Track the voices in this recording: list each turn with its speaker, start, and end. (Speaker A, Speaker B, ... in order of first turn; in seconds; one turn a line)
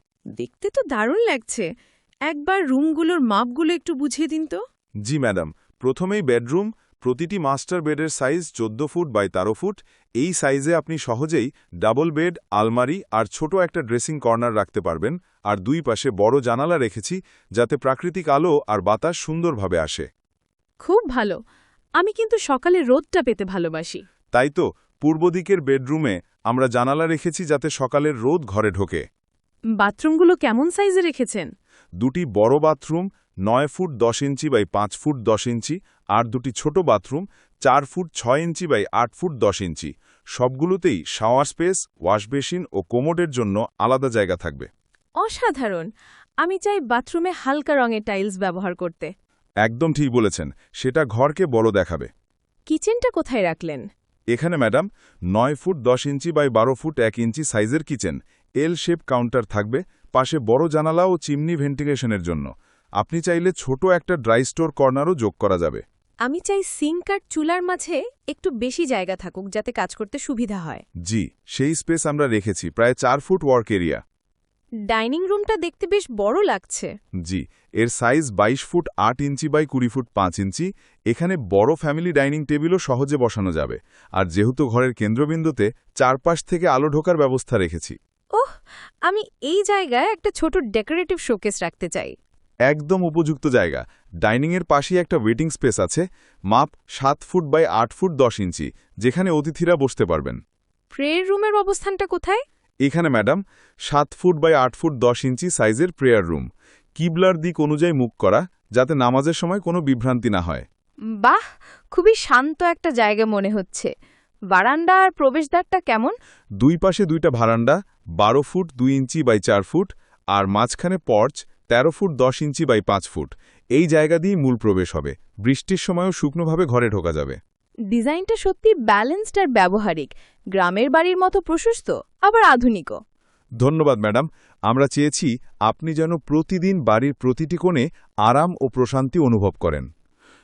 Speaker A: 0.3-1.7
Speaker A: 2.3-4.6
Speaker B: 5.0-20.1
Speaker A: 20.8-21.4
Speaker A: 22.0-24.0
Speaker B: 24.3-29.0
Speaker A: 29.8-31.5
Speaker B: 32.0-44.7
Speaker A: 45.2-45.9
Speaker A: 46.4-49.1
Speaker B: 49.6-52.1
Speaker A: 52.7-53.8
Speaker B: 54.3-65.8
Speaker A: 66.2-70.8
Speaker B: 71.0-74.0
Speaker A: 74.9-76.9
Speaker B: 77.2-88.0
Speaker A: 89.0-92.1
Speaker B: 92.7-100.4
Speaker A: 100.9-102.4
Speaker B: 102.8-106.5
Speaker B: 107.0-110.7
Speaker A: 111.9-113.9
Speaker A: 114.5-116.1
Speaker B: 116.6-127.4
Speaker A: 127.9-133.0
Speaker B: 133.6-139.9